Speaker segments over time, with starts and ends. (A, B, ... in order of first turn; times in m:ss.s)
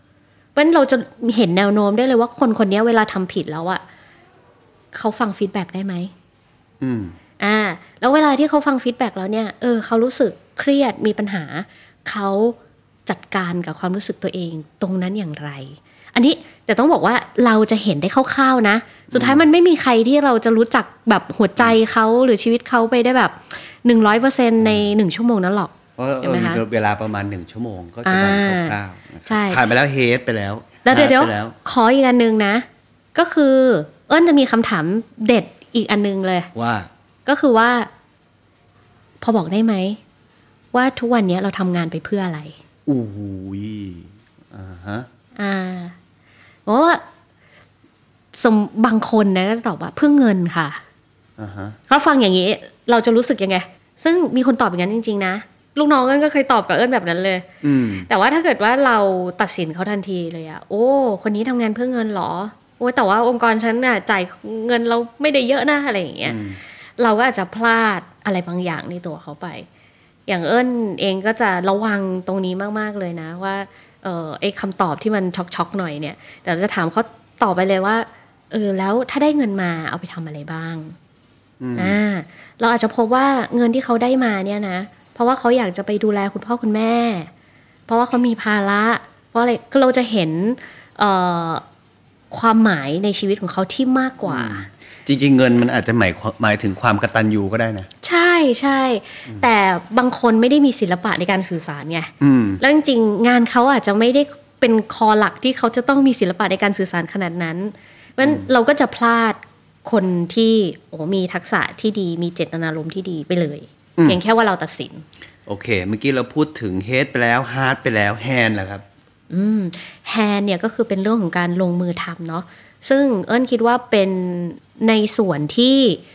0:00.5-0:03.8 A
0:04.9-0:06.1 A
0:06.8-0:07.2 B
0:07.4-0:26.6 A
0:19.1-0:19.4 B
0:24.6-0:24.9 B
0:26.0-0:31.6 B
0:28.0-0:28.8 A
0:29.3-0:29.6 A
0:30.8-0:36.5 A
0:36.5-0:36.9 B
0:37.2-0:37.9 A
0:39.2-0:40.0 A
0:40.7-0:42.6 A
0:42.9-0:45.1 B
0:45.4-0:45.9 A
0:46.6-0:47.0 A
0:48.3-0:50.8 A
0:51.4-0:51.8 B
0:51.9-0:57.5 A
0:57.6-0:58.1 B
0:58.0-1:06.4 A
1:06.2-1:06.6 B
1:07.0-1:09.7 A
1:10.3-1:21.0 A
1:21.6-1:22.0 B
1:21.8-1:27.3 A
1:27.9-1:31.6 A
1:32.3-1:34.7 A
1:34.2-1:37.9 B
1:38.0-1:55.0 A
1:42.2-1:42.6 B
1:48.2-1:48.5 B
1:55.4-1:58.8 B
1:59.3-2:06.0 A